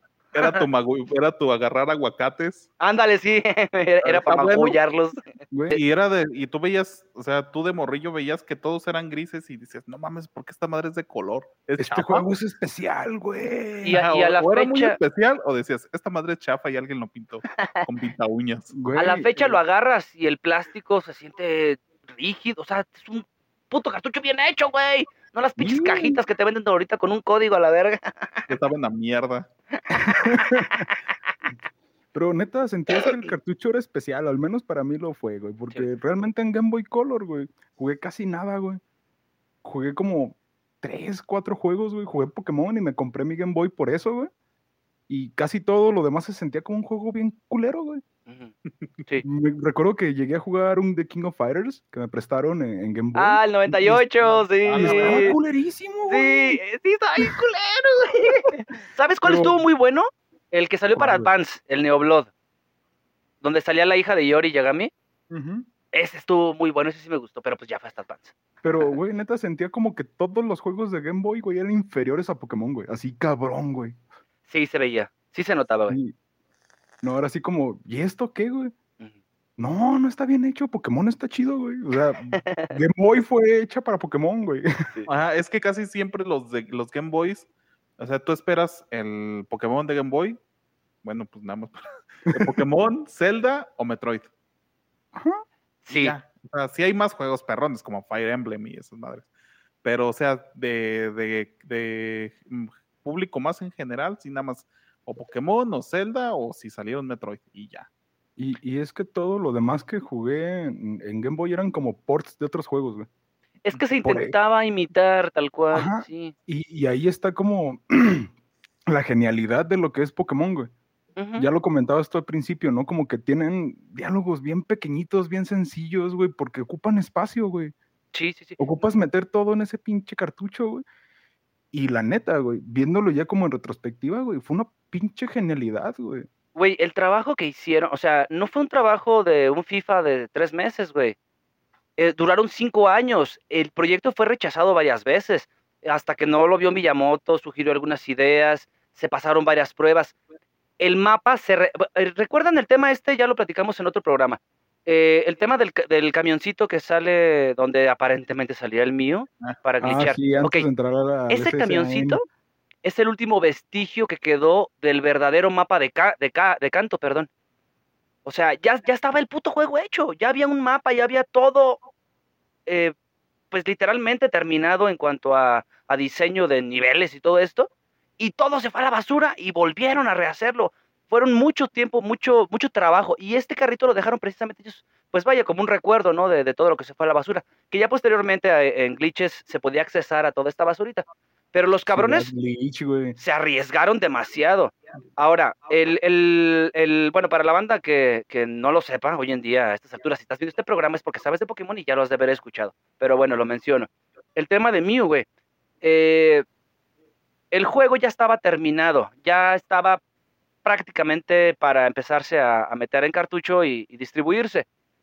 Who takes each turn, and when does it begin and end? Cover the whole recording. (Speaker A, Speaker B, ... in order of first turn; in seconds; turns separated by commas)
Speaker A: 0.3-2.7, Speaker B: 0.4-0.7, Speaker B: 2.8-5.8, Speaker A: 4.0-4.8, Speaker C: 5.5-5.8, Speaker A: 5.7-12.3, Speaker C: 11.8-14.0, Speaker B: 13.8-15.0, Speaker A: 13.9-18.7, Speaker B: 17.6-17.9, Speaker C: 18.7-19.6, Speaker B: 18.9-28.5, Speaker C: 25.6-26.2, Speaker A: 28.5-29.5, Speaker C: 30.0-30.8, Speaker B: 30.2-30.9, Speaker C: 32.1-38.8, Speaker C: 39.6-44.3, Speaker C: 45.1-48.0, Speaker B: 48.3-48.5, Speaker C: 49.2-54.0, Speaker B: 53.1-55.4, Speaker A: 54.6-55.4, Speaker C: 54.7-56.6, Speaker B: 56.1-62.3, Speaker C: 59.2-59.6, Speaker C: 61.0-61.3, Speaker B: 63.4-64.9, Speaker C: 65.3-65.7, Speaker B: 65.9-69.0, Speaker C: 68.6-74.0, Speaker B: 74.5-76.0, Speaker C: 75.9-76.1, Speaker C: 77.0-78.7, Speaker C: 79.6-84.7, Speaker B: 82.3-82.7, Speaker A: 85.0-87.5, Speaker A: 88.0-90.4, Speaker A: 91.0-94.3, Speaker C: 95.1-95.4, Speaker B: 95.8-96.2, Speaker A: 95.9-99.3, Speaker A: 99.8-107.9, Speaker C: 108.4-113.1, Speaker B: 113.6-116.3, Speaker C: 114.0-114.3, Speaker C: 115.7-118.3, Speaker C: 118.9-120.7, Speaker B: 121.2-121.5, Speaker C: 121.4-127.7, Speaker B: 128.1-128.6, Speaker C: 128.6-130.8, Speaker C: 131.7-136.3, Speaker B: 136.6-141.2, Speaker B: 142.0-150.2, Speaker B: 150.8-160.7, Speaker C: 159.8-162.2, Speaker B: 161.3-162.2, Speaker B: 162.8-167.3, Speaker B: 168.2-171.8, Speaker B: 172.7-172.9, Speaker B: 173.5-192.3, Speaker C: 191.9-193.2, Speaker B: 193.2-205.3, Speaker B: 205.8-206.4, Speaker B: 207.5-210.0, Speaker B: 210.6-214.7